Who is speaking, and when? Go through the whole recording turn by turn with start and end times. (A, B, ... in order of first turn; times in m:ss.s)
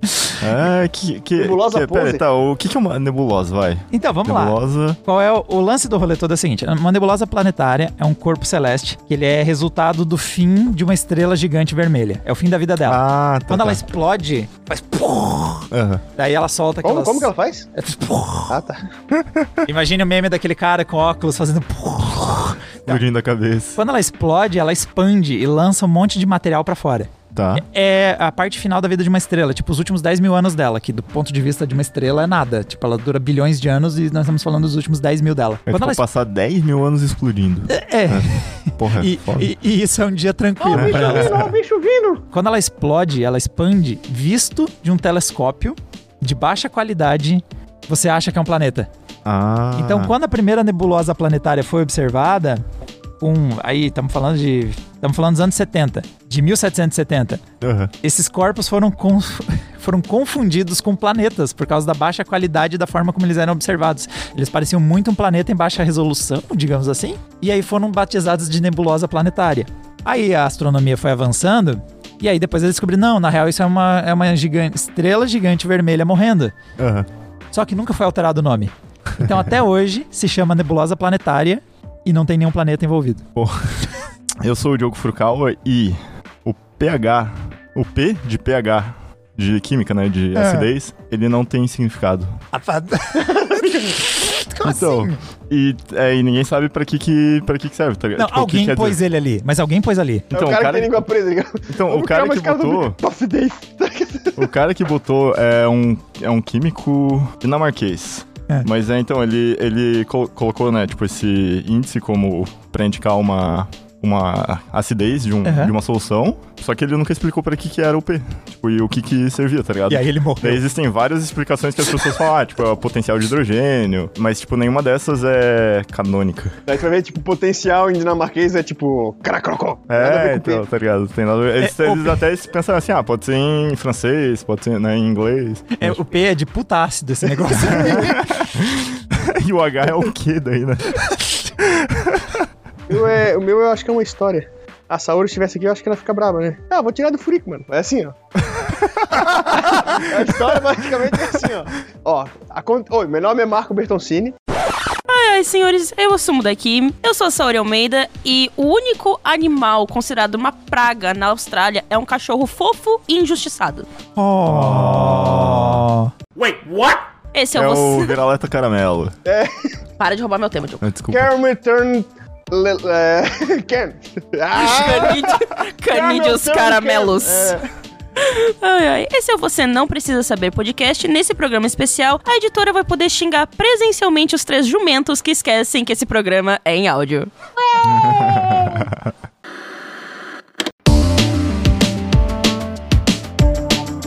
0:00.4-0:05.0 A
0:01.4-0:02.2 B
0:03.9-0:18.6 C
0:12.8-0:13.8 A
0:15.7-0:16.0 A
0:16.8-0:17.7 B
0:18.5-0:18.8 B
0:19.1-0:19.5 A
0:19.7-0:23.0 C
0:22.9-0:23.8 A
0:23.8-0:36.0 C
0:27.3-0:27.6 A
0:35.7-0:39.5 A
0:37.7-0:41.4 C
0:40.6-0:42.2 B
0:40.7-0:41.5 A
0:42.3-0:48.9 C
0:49.2-0:50.1 A
0:49.8-0:52.6 C
0:53.2-0:57.4 C
0:57.6-0:57.9 A
0:58.0-1:16.6 C
1:16.8-1:17.1 A
1:17.5-1:23.2 C
1:23.4-1:23.6 A
1:24.4-1:32.4 A
1:30.4-1:30.7 C
1:32.5-1:33.3 C
1:33.2-1:34.0 B
1:34.2-1:35.2 C
1:34.6-1:39.0 A
1:38.2-1:40.3 C
1:40.3-1:41.1 A
1:40.3-1:44.4 B
1:41.7-1:43.0 A
1:44.4-2:06.6 A
1:55.4-1:55.7 C
1:59.9-2:00.6 C
2:06.7-2:10.6 B
2:09.9-2:16.0 A
2:11.6-2:12.2 C
2:15.7-2:18.3 C
2:17.5-2:22.5 A
2:22.9-2:28.2 B
2:29.5-2:34.4 B
2:35.1-2:43.9 D
2:44.2-2:46.1 C
2:44.5-2:45.8 A
2:47.3-2:48.2 D
2:47.5-2:49.2 A
2:49.3-2:49.7 B
2:50.0-2:50.8 D
2:50.8-2:51.3 A
2:51.1-2:55.4 B
2:54.5-2:57.6 D
2:55.9-2:57.6 B
2:58.2-3:07.3 D
3:07.8-3:09.1 A